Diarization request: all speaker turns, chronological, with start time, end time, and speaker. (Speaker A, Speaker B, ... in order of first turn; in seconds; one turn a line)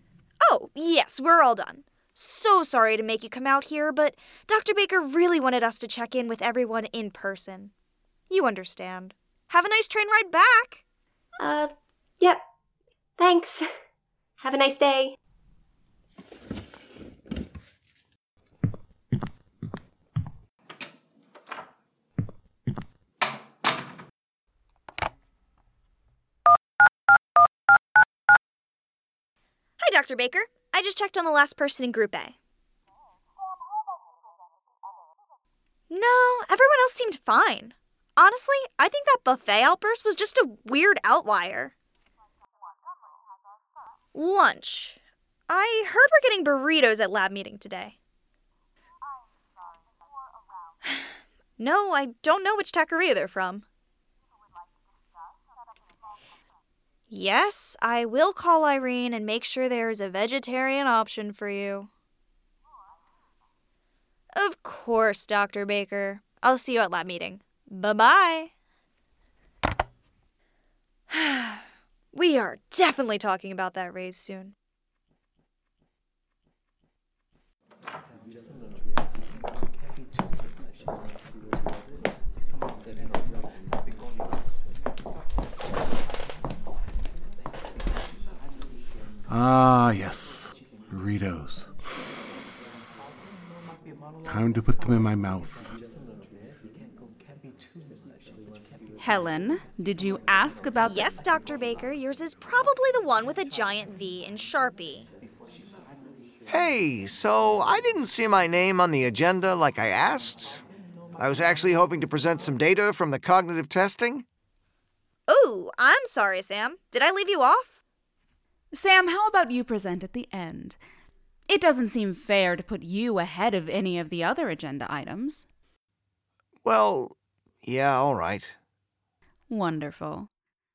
Speaker A: 0.5-7.7
Speaker A: 8.3-10.8
Speaker B: 11.4-12.4
Speaker B: 13.2-13.7
Speaker B: 14.4-15.1
Speaker A: 29.8-32.3
Speaker A: 35.9-41.7
Speaker A: 44.1-45.0
Speaker A: 45.5-47.9
Speaker A: 50.8-53.6
Speaker A: 57.1-61.9
Speaker A: 64.3-68.5
Speaker A: 71.1-71.6
Speaker A: 72.1-74.5
Speaker C: 89.3-91.7
Speaker C: 94.2-95.8
Speaker D: 99.0-101.1
Speaker A: 100.8-105.1
Speaker E: 106.5-110.6
Speaker E: 111.2-114.2
Speaker A: 115.3-117.7
Speaker D: 118.7-120.8
Speaker D: 121.5-125.4
Speaker E: 126.6-128.5
Speaker D: 129.5-130.3